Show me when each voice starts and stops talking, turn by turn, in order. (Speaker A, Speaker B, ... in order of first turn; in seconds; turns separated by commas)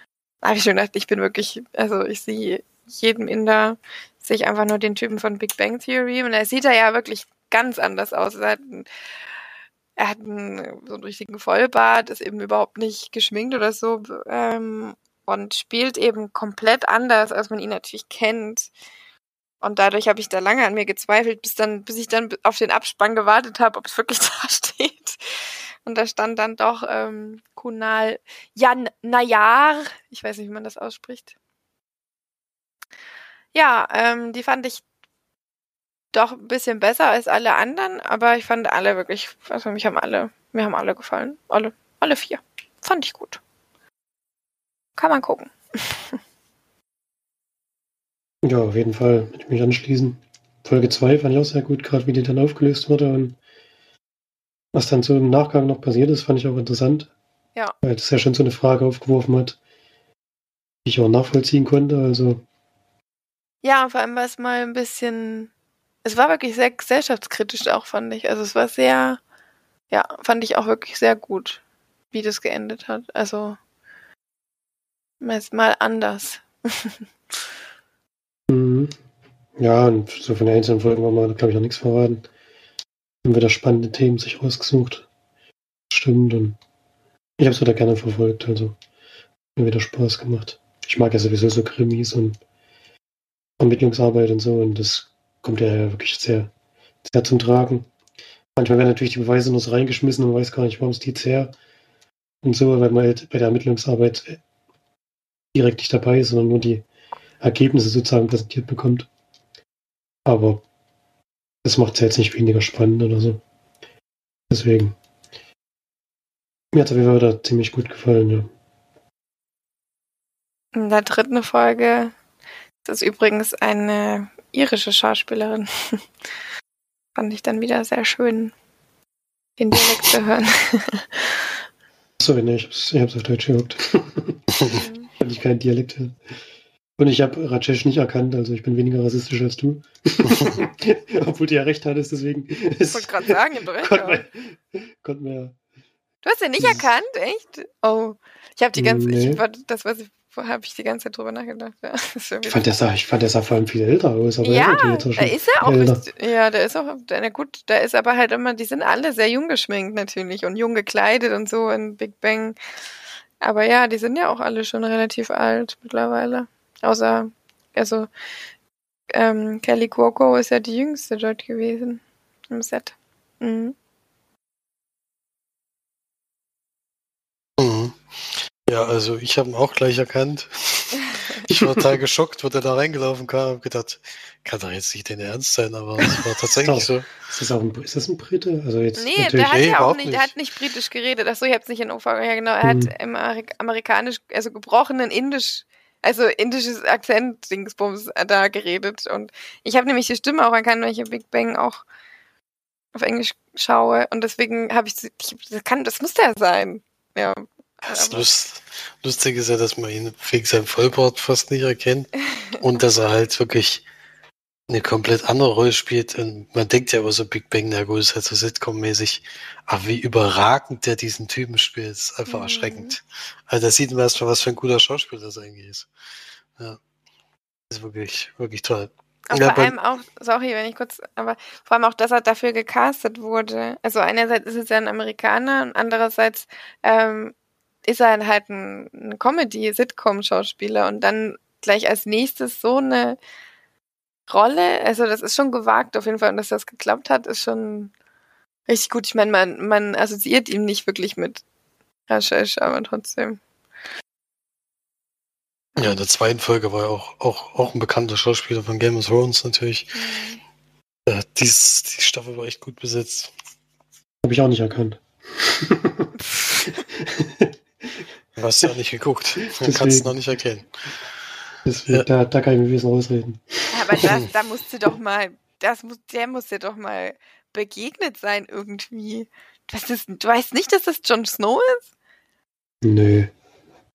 Speaker A: 0.4-8.9, Speaker A: 10.0-18.7, Speaker A: 19.6-25.2, Speaker A: 25.8-31.3, Speaker A: 33.5-34.8, Speaker A: 36.1-43.4, Speaker A: 45.0-46.2, Speaker B: 48.4-53.4, Speaker B: 54.7-57.1, Speaker B: 57.8-59.6, Speaker B: 60.9-62.4, Speaker A: 63.6-65.5, Speaker A: 66.0-69.2, Speaker A: 69.9-71.6, Speaker A: 72.1-73.6, Speaker A: 75.2-76.9, Speaker B: 78.5-78.9, Speaker B: 79.6-82.3, Speaker B: 83.2-85.1, Speaker B: 85.9-86.6, Speaker B: 87.4-88.8, Speaker B: 89.6-92.4, Speaker B: 93.6-96.5, Speaker B: 97.0-97.9, Speaker B: 98.6-101.5, Speaker B: 102.4-104.4, Speaker B: 105.5-106.9, Speaker B: 107.4-109.1, Speaker B: 110.2-110.6, Speaker B: 111.6-113.4, Speaker B: 114.5-115.0, Speaker B: 116.7-118.5, Speaker A: 120.7-122.1, Speaker A: 122.8-126.0, Speaker A: 127.2-128.5, Speaker A: 129.6-131.3, Speaker B: 132.2-134.4, Speaker A: 134.7-135.1, Speaker B: 135.2-136.2, Speaker B: 137.0-145.6, Speaker A: 142.9-144.2, Speaker A: 146.2-152.6, Speaker B: 146.6-146.9, Speaker B: 148.8-149.4, Speaker B: 152.5-156.0, Speaker A: 154.4-162.6, Speaker A: 163.4-168.1, Speaker A: 169.1-173.8, Speaker C: 177.6-178.0, Speaker C: 178.7-187.2, Speaker A: 186.0-186.3, Speaker B: 186.6-189.8, Speaker A: 188.9-201.8, Speaker C: 189.5-190.3, Speaker B: 192.6-192.9, Speaker A: 202.9-208.3, Speaker C: 207.8-213.9, Speaker C: 214.7-225.9, Speaker A: 222.3-223.0, Speaker C: 227.7-229.8, Speaker A: 229.3-237.3, Speaker A: 237.8-243.2, Speaker A: 244.3-247.9, Speaker A: 248.7-251.4, Speaker A: 252.1-253.4, Speaker C: 255.8-259.9, Speaker A: 259.9-260.4, Speaker C: 261.1-263.3, Speaker B: 264.2-266.1, Speaker A: 266.3-266.7, Speaker B: 266.9-267.5, Speaker C: 268.4-270.7, Speaker B: 269.6-270.1, Speaker B: 271.6-273.7, Speaker A: 273.7-281.9, Speaker B: 282.8-283.3